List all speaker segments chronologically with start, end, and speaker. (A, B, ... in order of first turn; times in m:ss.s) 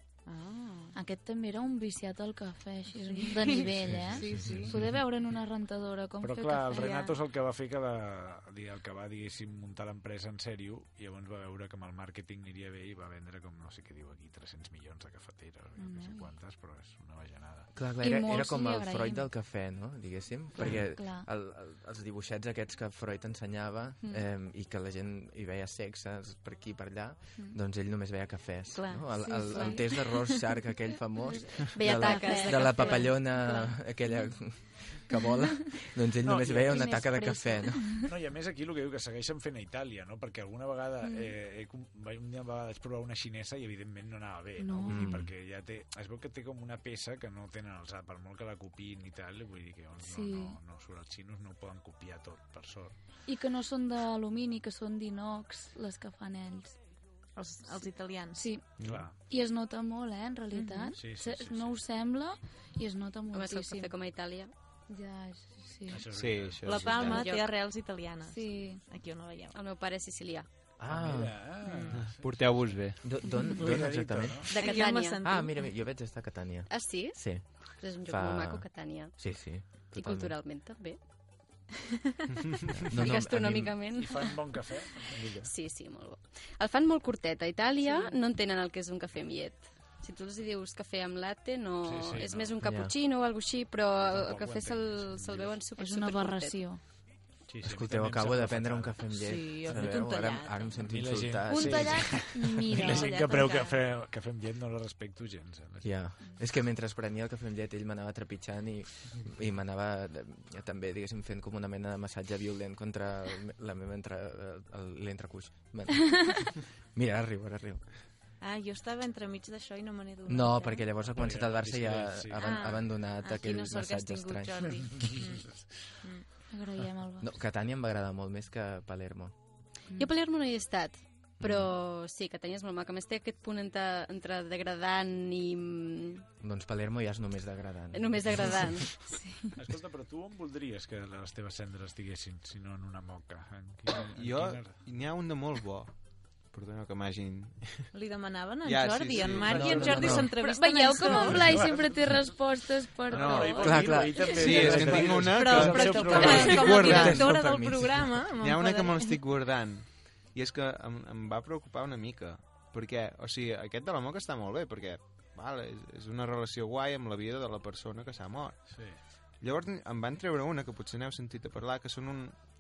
0:00.3-0:00.9 A
0:00.9-0:06.9 B
0:03.1-0:04.7 A
0:04.3-0:04.6 C
0:06.2-0:17.7 C
0:06.8-0:07.2 A
0:15.8-0:16.3 B
0:17.8-0:38.0 D
0:18.0-0:19.3 B
0:20.6-0:21.3 B
0:28.7-0:30.4 A
0:29.2-0:29.8 B
0:31.7-0:33.2 E
0:31.8-0:33.3 A
0:32.2-0:32.5 B
0:36.2-0:37.0 C
0:36.6-0:38.1 B
0:38.0-0:53.0 C
0:41.0-0:41.3 B
0:44.6-0:45.1 B
0:44.9-0:45.3 D
0:50.0-0:50.6 B
0:53.3-0:56.8 B
0:57.4-0:58.4 A
0:57.7-0:58.6 B
0:58.8-0:59.1 F
0:58.8-0:59.1 C
0:59.3-1:03.9 B
1:00.5-1:01.0 A
1:01.0-1:01.8 C
1:03.3-1:04.5 E
1:04.9-1:06.0 B
1:05.9-1:07.0 C
1:06.1-1:07.3 F
1:06.6-1:09.6 A
1:07.0-1:07.5 E
1:08.3-1:08.8 B
1:09.5-1:10.5 E
1:10.8-1:11.6 D
1:10.8-1:12.7 C
1:11.6-1:11.9 A
1:11.9-1:13.0 F
1:13.0-1:14.5 D
1:13.4-1:14.5 C
1:14.5-1:15.2 E
1:14.5-1:15.6 A
1:15.2-1:17.5 D
1:16.7-1:19.3 E
1:18.0-1:20.4 D
1:19.9-1:21.0 E
1:22.7-1:23.8 D
1:22.9-1:24.6 E
1:24.0-1:25.5 C
1:25.4-1:36.7 E
1:27.8-1:28.2 B
1:31.8-1:32.6 C
1:32.6-1:32.9 D
1:34.0-1:35.6 C
1:35.8-1:36.8 B
1:37.5-1:39.0 C
1:37.6-1:42.2 D
1:39.1-1:40.8 A
1:40.8-1:45.9 C
1:41.5-1:43.5 B
1:42.8-1:43.8 A
1:45.8-1:57.9 D
1:58.4-2:00.8 A
2:00.3-2:04.8 D
2:01.0-2:02.6 C
2:02.4-2:05.5 A
2:05.0-2:06.0 C
2:06.5-2:07.3 B
2:07.2-2:09.4 D
2:10.0-2:16.3 E
2:11.4-2:11.7 D
2:16.4-2:18.7 D
2:17.9-2:18.9 E
2:19.6-2:24.8 C
2:24.1-2:27.9 F
2:27.9-2:31.4 A
2:28.6-2:30.2 F
2:29.5-2:30.3 D
2:29.7-2:30.0 C
2:30.3-2:33.7 B
2:31.3-2:32.4 C
2:33.1-2:37.2 C
2:33.1-2:37.3 F
2:33.6-2:35.1 D
2:35.1-2:39.1 A
2:36.1-2:38.2 D
2:38.4-2:52.4 F
2:48.7-2:49.0 C